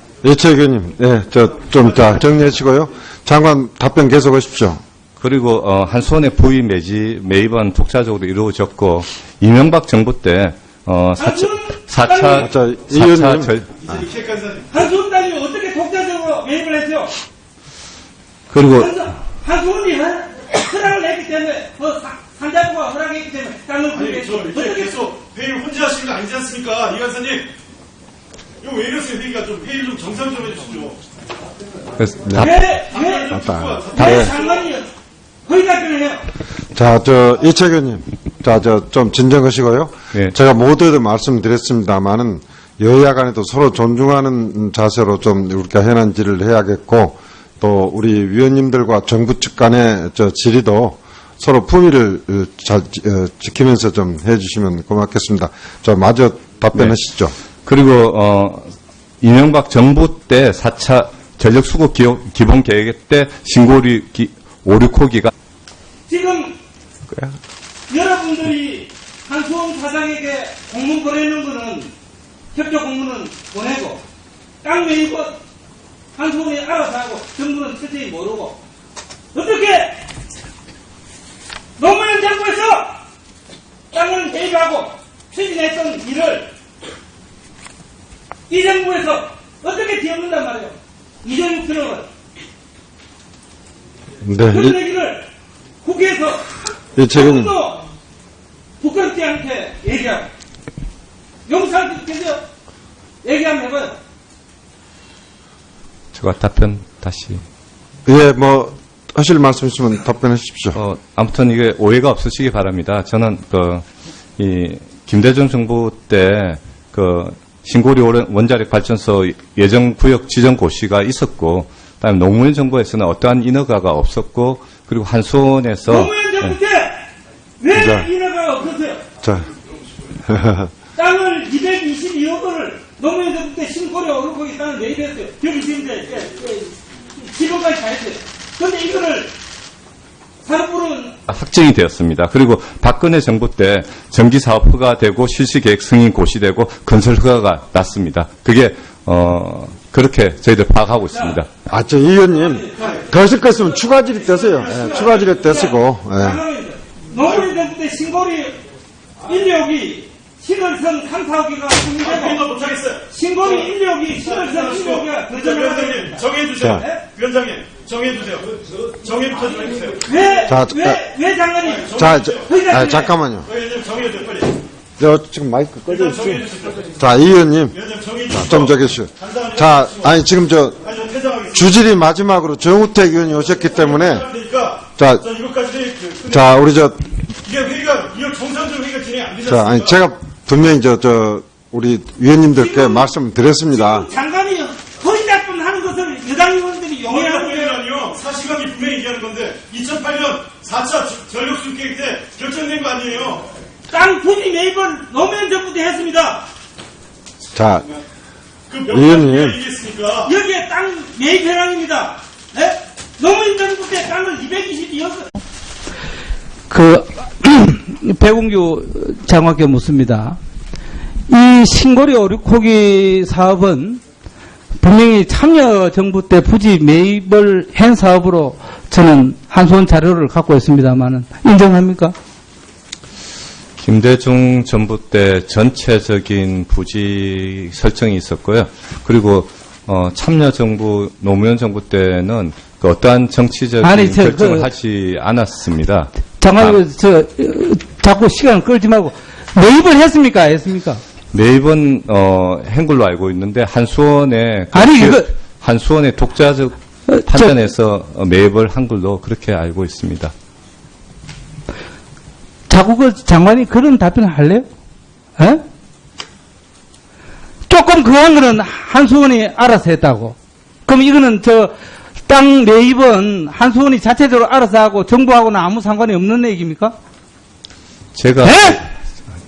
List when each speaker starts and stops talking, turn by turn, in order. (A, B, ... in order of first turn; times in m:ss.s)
0:00.2-0:04.8 A
0:05.2-0:13.7 B
0:11.2-0:12.5 C
0:12.4-0:13.6 A
0:13.8-0:14.7 D
0:14.7-0:17.1 C
0:18.5-0:18.9 B
0:18.6-0:24.9 C
0:23.9-0:27.5 D
0:28.6-0:31.0 D
0:32.0-0:32.5 B
0:32.2-0:32.6 A
0:32.3-0:33.4 C
0:32.9-0:34.6 D
0:33.3-0:34.3 A
0:33.9-0:34.9 C
0:35.4-0:36.2 C
0:36.7-0:57.3 A
0:57.6-1:05.3 B
1:06.1-1:06.6 C
1:07.9-1:11.9 C
1:12.5-1:14.0 C
1:14.6-1:15.4 C
1:16.2-1:18.6 C
1:19.3-1:20.0 C
1:21.8-1:23.0 C
1:23.9-1:26.5 C
1:28.5-1:32.1 C
1:34.2-1:34.8 A
1:34.5-1:35.3 C
1:35.8-1:36.5 C
1:37.0-1:37.5 A
1:37.1-1:37.8 C
1:38.8-1:40.3 C
1:41.4-1:42.4 C
1:43.2-1:44.0 C
1:46.1-1:47.4 B
1:48.0-1:50.8 A
1:50.7-1:53.8 B
1:54.4-2:06.5 B
2:05.9-2:07.1 C
2:07.6-2:09.0 C
2:07.7-2:08.1 A
2:09.2-2:09.5 A
2:10.3-2:10.7 A
2:11.0-2:19.3 C
2:20.4-2:21.1 C
2:21.3-2:31.5 B
2:31.7-2:36.4 A
2:32.4-2:33.0 C
2:32.8-2:33.0 D
2:34.5-2:35.5 D
2:34.5-2:38.6 C
2:39.2-2:42.4 C
2:42.0-2:50.1 D
2:43.1-2:47.0 C
2:46.6-2:46.8 A
2:50.0-2:53.1 C
2:50.4-2:51.0 A
2:51.6-2:52.5 D
2:51.9-2:53.5 A
2:53.4-2:54.6 D
2:55.0-2:56.4 A
2:55.9-2:56.9 D
2:56.9-2:57.8 A
2:57.7-3:00.2 D
2:58.3-3:00.8 A
3:00.8-3:01.7 D
3:01.5-3:04.2 A
3:03.6-3:06.6 D
3:05.0-3:05.2 A
3:06.3-3:07.1 A
3:07.4-3:10.0 D
3:09.4-3:14.1 A
3:12.5-3:13.1 C
3:13.7-3:17.8 C
3:17.1-3:23.5 D
3:23.9-3:26.5 C
3:27.5-3:27.9 A
3:28.7-3:30.3 D
3:28.9-3:29.6 A
3:30.2-3:35.3 C
3:36.7-3:40.4 E
3:41.3-3:44.0 E
3:44.8-3:52.1 E
3:53.8-4:06.8 B
4:03.8-4:04.7 E
4:06.4-4:11.0 E
4:11.3-4:20.3 B
4:14.7-4:15.3 E
4:17.1-4:17.6 E
4:22.7-4:24.7 E
4:25.4-4:25.6 E
4:27.7-4:30.3 E
4:30.8-4:31.7 E
4:32.2-4:37.0 E
4:38.1-4:38.8 B
4:38.4-4:38.8 E